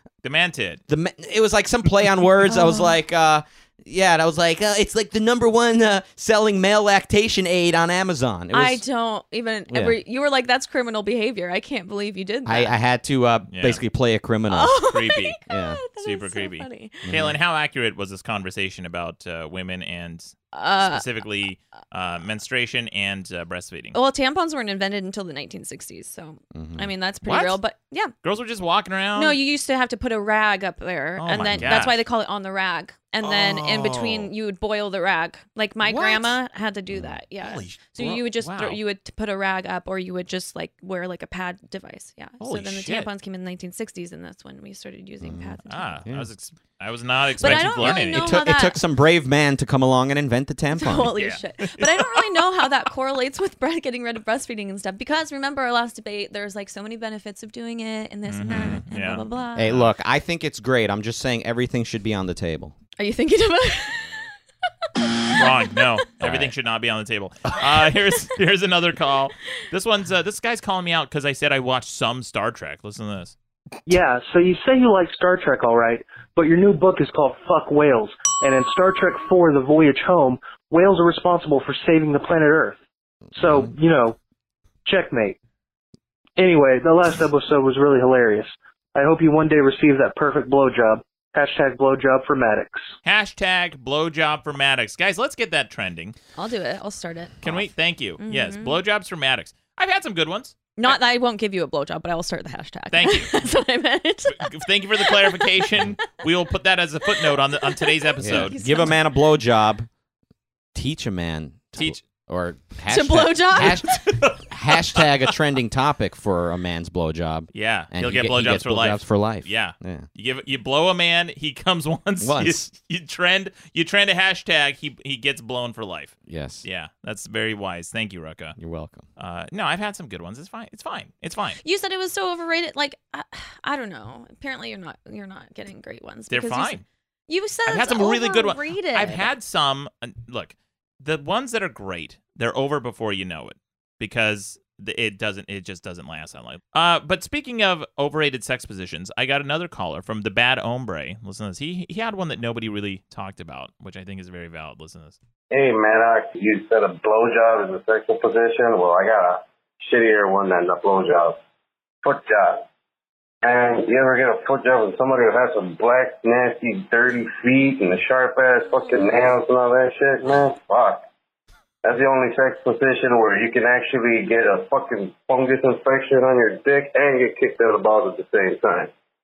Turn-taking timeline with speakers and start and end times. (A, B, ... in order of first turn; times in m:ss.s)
0:00.2-0:00.8 A
0:00.9-0:08.8 B
0:02.5-0:02.9 C
0:08.5-0:12.7 C
0:09.7-0:10.0 B
0:12.4-0:14.8 B
0:13.5-0:13.8 A
0:14.5-0:17.1 C
0:14.8-0:15.4 A
0:15.5-0:15.8 B
0:16.0-0:24.0 A
0:17.0-0:17.4 B
0:20.5-0:21.1 C
0:23.9-0:28.1 C
0:26.5-0:26.9 B
0:27.2-0:27.6 A
0:28.2-0:29.4 A
0:29.1-0:46.0 C
0:31.2-0:32.0 A
0:31.5-0:31.8 B
0:33.2-0:34.3 A
0:35.8-0:36.4 A
0:36.9-0:37.2 B
0:37.4-0:38.8 A
0:42.4-0:43.1 A
0:45.2-0:46.3 B
0:45.7-0:48.4 A
0:47.4-0:48.8 C
0:47.4-0:51.2 B
0:50.7-0:59.7 C
0:51.2-0:52.1 A
0:58.3-0:59.9 A
0:59.6-1:02.7 B
1:03.0-1:04.2 C
1:05.4-1:13.3 A
1:06.2-1:06.5 B
1:13.9-1:22.8 D
1:23.3-1:24.2 D
1:24.8-1:25.4 D
1:26.4-1:32.8 D
1:33.0-1:36.2 A
1:36.4-1:37.5 C
1:37.4-1:41.0 A
1:38.2-1:38.8 C
1:40.8-1:45.9 C
1:42.9-1:43.4 A
1:44.3-1:48.6 A
1:47.5-1:49.0 C
1:48.2-1:49.9 B
1:50.7-2:00.1 B
1:51.7-1:52.0 A
1:52.9-1:53.8 C
1:53.6-1:55.1 A
1:57.5-2:08.6 A
2:02.2-2:02.7 B
2:06.2-2:06.6 B
2:08.6-2:09.0 B
2:09.2-2:11.6 A
2:11.6-2:19.3 C
2:16.3-2:16.8 A
2:17.6-2:35.2 A
2:35.5-2:41.4 E
2:42.0-2:42.6 E
2:43.4-2:51.0 E
2:51.8-2:58.9 E